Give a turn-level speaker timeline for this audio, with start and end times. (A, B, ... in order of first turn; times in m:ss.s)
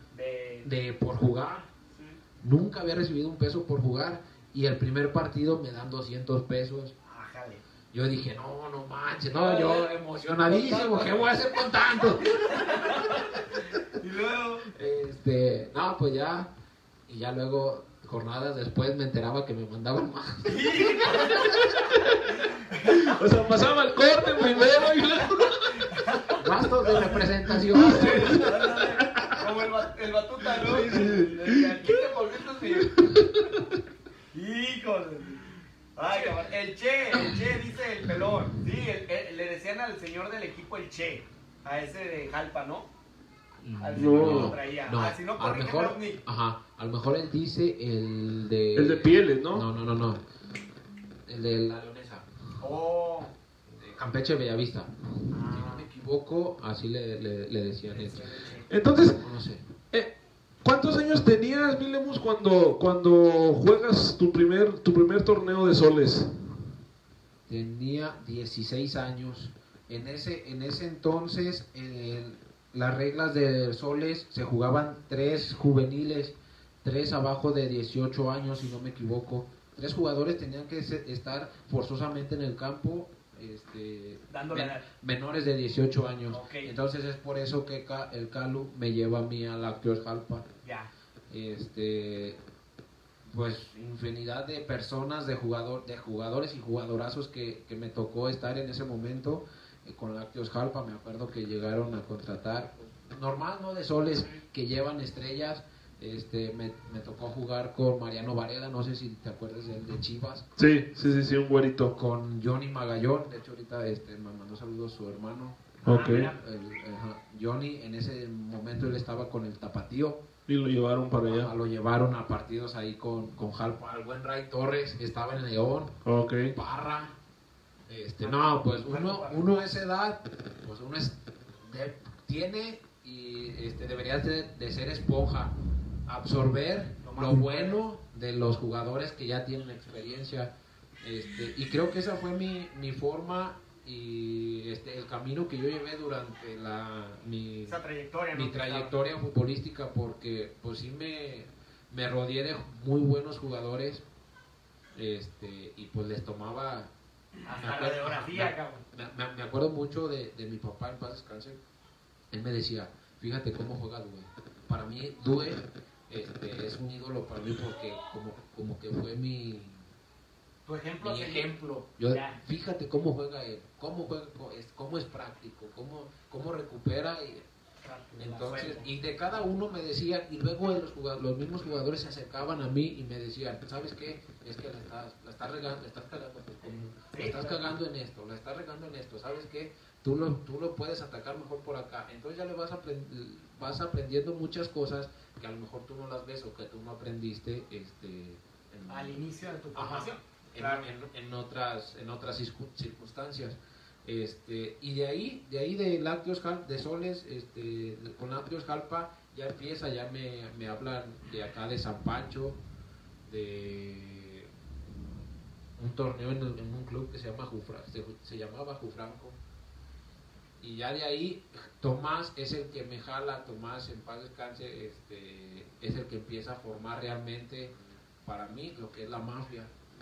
0:00.1-0:00.7 A
0:00.6-0:01.7 B
0:02.4-0:06.9 B
0:07.1-0:07.6 A
0:07.9-0:12.9 B
0:09.3-0:11.2 A
0:12.3-0:14.7 A
0:14.7-0:16.5 B
0:17.1-0:21.6 B
0:20.4-0:21.6 A
0:21.9-0:22.2 C
0:22.3-0:23.6 A
0:22.9-0:25.9 C
0:24.4-0:24.9 A
0:25.8-0:27.2 A
0:26.4-0:28.6 B
0:27.7-0:29.4 C
0:27.7-0:32.9 A
0:30.6-0:33.7 C
0:34.3-0:35.4 A
0:36.0-0:42.9 A
0:36.1-0:36.4 C
0:43.6-0:50.2 B
0:43.8-0:46.2 A
0:44.0-0:44.6 C
0:48.7-0:49.6 C
0:51.3-0:52.2 B
0:52.6-0:53.3 A
0:53.8-0:58.2 B
0:55.3-0:55.8 A
0:57.9-0:58.7 A
0:58.7-0:59.2 C
0:59.1-0:59.6 B
1:00.6-1:06.3 C
1:07.5-1:30.4 B
1:24.3-1:24.8 A
1:26.3-1:26.7 A
1:30.6-1:30.9 A
1:31.3-1:32.4 B
1:33.3-1:50.4 B
1:50.6-1:51.9 C
1:51.9-2:00.2 B
1:55.8-1:56.3 C
1:55.8-1:56.4 A
2:00.5-2:01.5 C
2:01.2-2:05.9 B
2:06.0-2:06.5 C
2:06.5-2:07.2 B
2:07.9-2:15.5 B
2:08.2-2:09.4 A
2:16.1-2:27.8 B
2:17.0-2:17.8 A
2:27.6-2:28.9 A
2:28.3-2:34.0 B
2:34.9-2:36.9 B
2:37.4-2:38.8 A
2:37.6-2:41.6 B
2:42.3-2:49.8 B
2:50.6-2:51.5 A
2:51.0-2:57.4 B
2:52.1-2:52.4 A
2:57.8-2:58.9 A
2:58.2-3:32.6 B
3:07.1-3:07.6 A
3:18.9-3:20.8 A
3:33.2-3:34.5 B
3:35.8-3:39.4 B
3:40.6-3:47.7 B
3:48.2-3:49.7 B